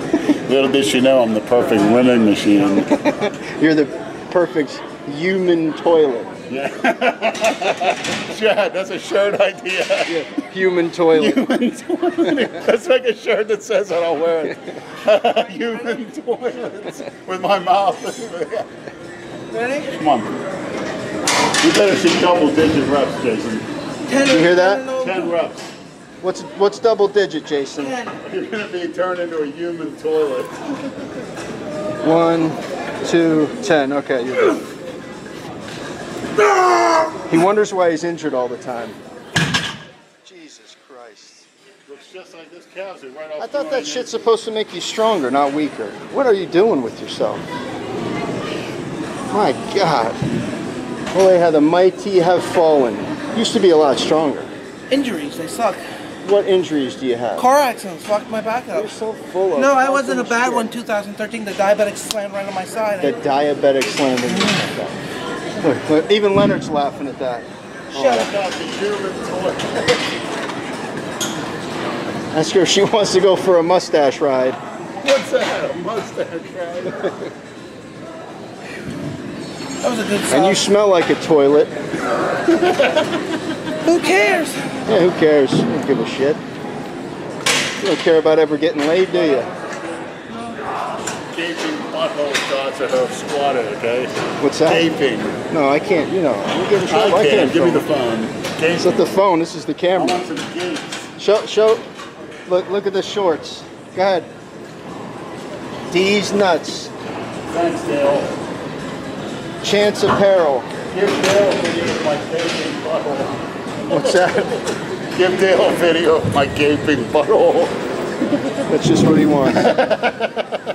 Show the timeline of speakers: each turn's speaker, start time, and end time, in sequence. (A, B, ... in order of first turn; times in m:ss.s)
0:00.2-0:02.9 A
0:02.9-0:06.3 B
0:06.5-0:10.2 A
0:10.0-0:11.5 B
0:11.1-0:18.7 A
0:19.5-0:19.9 C
0:19.9-0:20.4 A
0:21.6-0:23.7 A
0:24.1-0:25.3 C
0:24.2-0:24.9 B
0:24.9-0:25.7 A
0:26.2-0:28.0 B
0:27.7-0:28.1 C
0:28.2-0:30.7 A
0:32.0-0:34.6 B
0:37.0-0:39.0 B
0:40.2-0:41.5 B
0:41.9-0:44.3 A
0:43.4-0:47.4 B
0:49.3-0:50.2 B
0:51.1-0:54.5 B
0:54.9-0:55.8 C
0:56.2-0:57.4 B
0:57.4-0:58.9 C
0:58.7-1:00.7 B
0:59.5-1:03.2 C
1:03.0-1:05.0 B
1:05.6-1:08.3 B
1:07.9-1:08.3 C
1:08.1-1:10.0 A
1:12.3-1:14.6 B
1:15.0-1:17.1 A
1:19.8-1:20.6 C
1:20.3-1:21.7 B
1:22.5-1:23.2 A
1:23.8-1:24.7 C
1:24.8-1:26.4 B
1:27.8-1:29.5 B
1:31.3-1:35.4 A
1:34.4-1:34.9 B
1:35.5-1:37.9 B
1:36.9-1:39.1 A
1:38.8-1:40.3 B
1:39.9-1:41.1 A
1:41.2-1:41.8 B
1:42.5-1:44.3 B
1:45.9-1:46.9 B
1:47.5-1:48.4 A
1:49.6-1:50.7 B
1:50.9-1:57.8 A
1:53.9-1:54.5 B
1:58.7-1:59.7 B
1:59.4-2:00.6 A